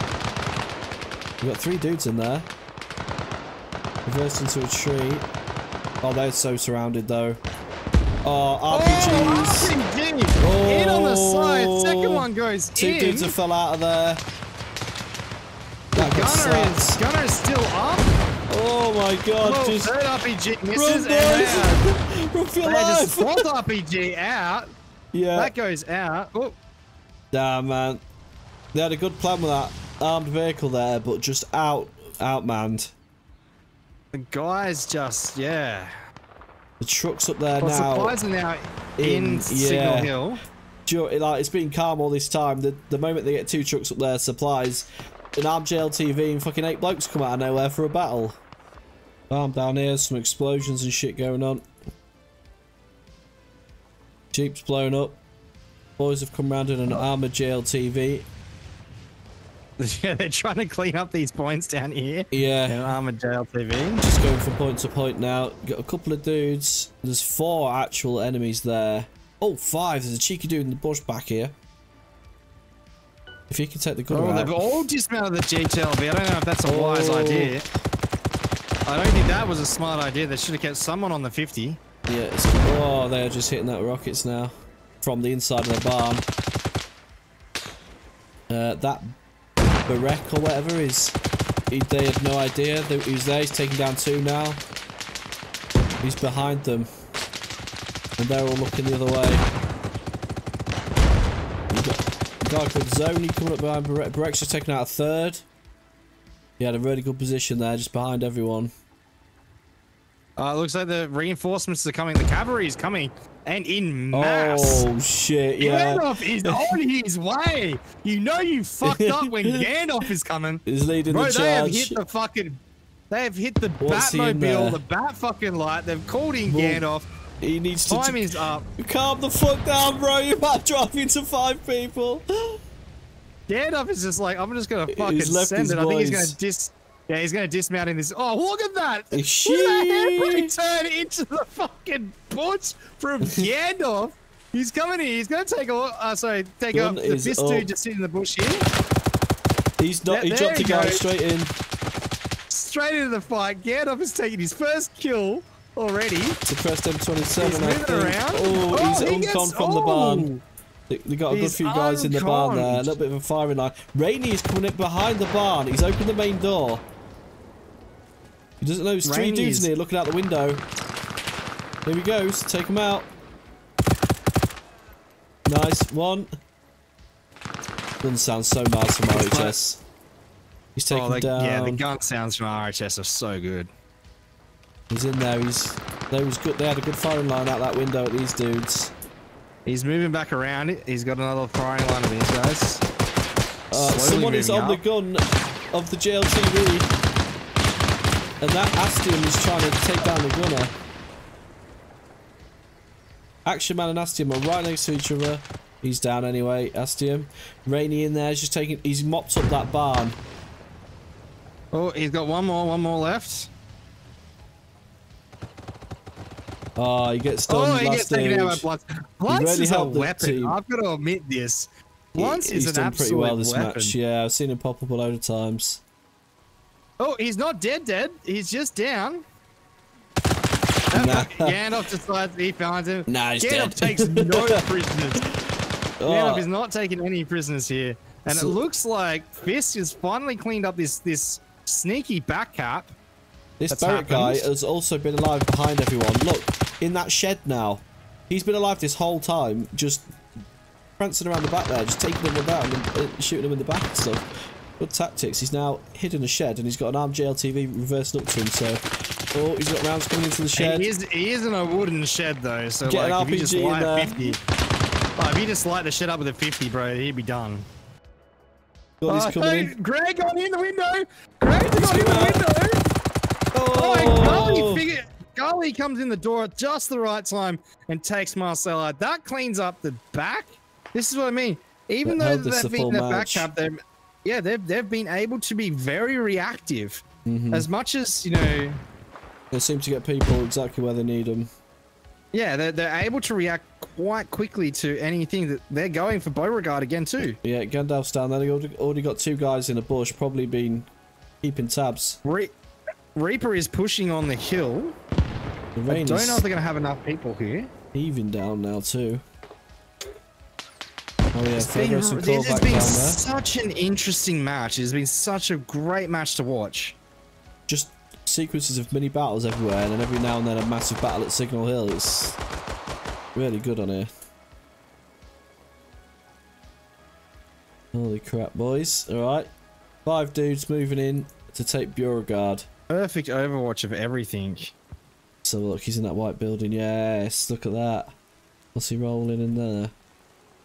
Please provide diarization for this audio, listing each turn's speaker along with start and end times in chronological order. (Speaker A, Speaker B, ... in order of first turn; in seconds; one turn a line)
Speaker A: 1.4-2.5
Speaker A: 4.0-5.3
Speaker A: 6.0-7.4
Speaker A: 8.2-9.7
Speaker B: 8.7-13.4
Speaker A: 10.4-14.2
Speaker A: 15.9-17.0
Speaker B: 15.9-18.2
Speaker A: 18.5-19.9
Speaker B: 19.4-21.8
Speaker A: 20.8-23.4
Speaker B: 22.6-24.7
Speaker A: 25.1-25.5
Speaker B: 25.4-26.6
Speaker A: 27.3-28.0
Speaker A: 28.7-32.9
Speaker B: 34.1-35.9
Speaker A: 36.8-38.2
Speaker B: 37.6-40.4
Speaker A: 39.0-40.1
Speaker A: 40.9-48.4
Speaker A: 49.3-51.7
Speaker A: 54.3-55.2
Speaker A: 56.0-58.3
Speaker B: 59.8-64.1
Speaker A: 62.3-63.0
Speaker A: 64.0-71.5
Speaker A: 73.5-74.6
Speaker B: 74.1-77.7
Speaker A: 76.7-77.6
Speaker B: 78.9-81.8
Speaker A: 82.1-86.2
Speaker A: 88.5-89.1
Speaker A: 89.9-91.2
Speaker A: 91.7-94.6
Speaker A: 96.0-96.9
Speaker A: 98.2-99.5
Speaker A: 101.7-105.5
Speaker A: 106.6-108.7
Speaker B: 110.4-114.9
Speaker A: 114.1-116.8
Speaker B: 115.6-127.1
Speaker A: 118.8-119.7
Speaker A: 120.7-122.0
Speaker A: 123.8-124.8
Speaker A: 126.5-126.9
Speaker A: 127.4-128.2
Speaker B: 127.9-128.7
Speaker A: 128.8-132.6
Speaker B: 133.5-148.7
Speaker A: 134.9-136.4
Speaker A: 139.1-140.5
Speaker A: 143.2-143.5
Speaker A: 146.7-147.7
Speaker A: 149.8-151.5
Speaker B: 150.1-151.0
Speaker B: 152.5-156.4
Speaker A: 156.5-160.3
Speaker B: 157.4-160.4
Speaker A: 160.9-166.9
Speaker B: 161.3-162.9
Speaker A: 168.6-170.6
Speaker B: 169.1-169.7
Speaker A: 171.8-173.1
Speaker A: 175.5-176.3
Speaker A: 178.0-179.8
Speaker B: 179.1-179.6
Speaker A: 180.8-181.8
Speaker B: 180.9-183.7
Speaker A: 184.9-188.9
Speaker B: 189.7-192.8
Speaker A: 193.7-196.9
Speaker B: 193.7-194.8
Speaker A: 198.4-200.7
Speaker A: 203.4-210.2
Speaker B: 211.7-213.5
Speaker A: 216.8-218.7
Speaker B: 217.5-223.9
Speaker A: 219.3-220.6
Speaker A: 222.2-225.8
Speaker B: 227.0-229.2
Speaker B: 230.9-235.2
Speaker A: 230.9-231.6
Speaker A: 233.1-234.6
Speaker A: 236.0-236.5
Speaker B: 236.1-242.9
Speaker A: 238.3-238.6
Speaker A: 243.6-250.1
Speaker B: 243.7-244.5
Speaker A: 251.0-254.3
Speaker A: 254.8-258.8
Speaker A: 259.3-260.9
Speaker B: 260.6-264.4
Speaker A: 262.9-264.4
Speaker B: 265.2-267.7
Speaker A: 269.0-269.7
Speaker B: 269.1-272.9
Speaker A: 271.7-272.4
Speaker B: 273.6-288.8
Speaker A: 273.7-274.9
Speaker A: 282.0-283.5
Speaker A: 287.3-287.7
Speaker A: 289.5-291.5
Speaker B: 292.3-297.4
Speaker A: 297.4-300.9
Speaker A: 301.4-302.2
Speaker B: 302.2-302.5
Speaker B: 303.1-304.9
Speaker A: 305.8-306.4
Speaker B: 305.9-307.7
Speaker A: 307.9-309.2
Speaker A: 311.3-313.2
Speaker B: 311.6-317.0
Speaker A: 317.7-322.4
Speaker A: 323.4-324.1
Speaker A: 327.9-329.5
Speaker A: 330.1-332.7
Speaker B: 332.9-334.8
Speaker A: 335.4-338.1
Speaker A: 338.8-339.9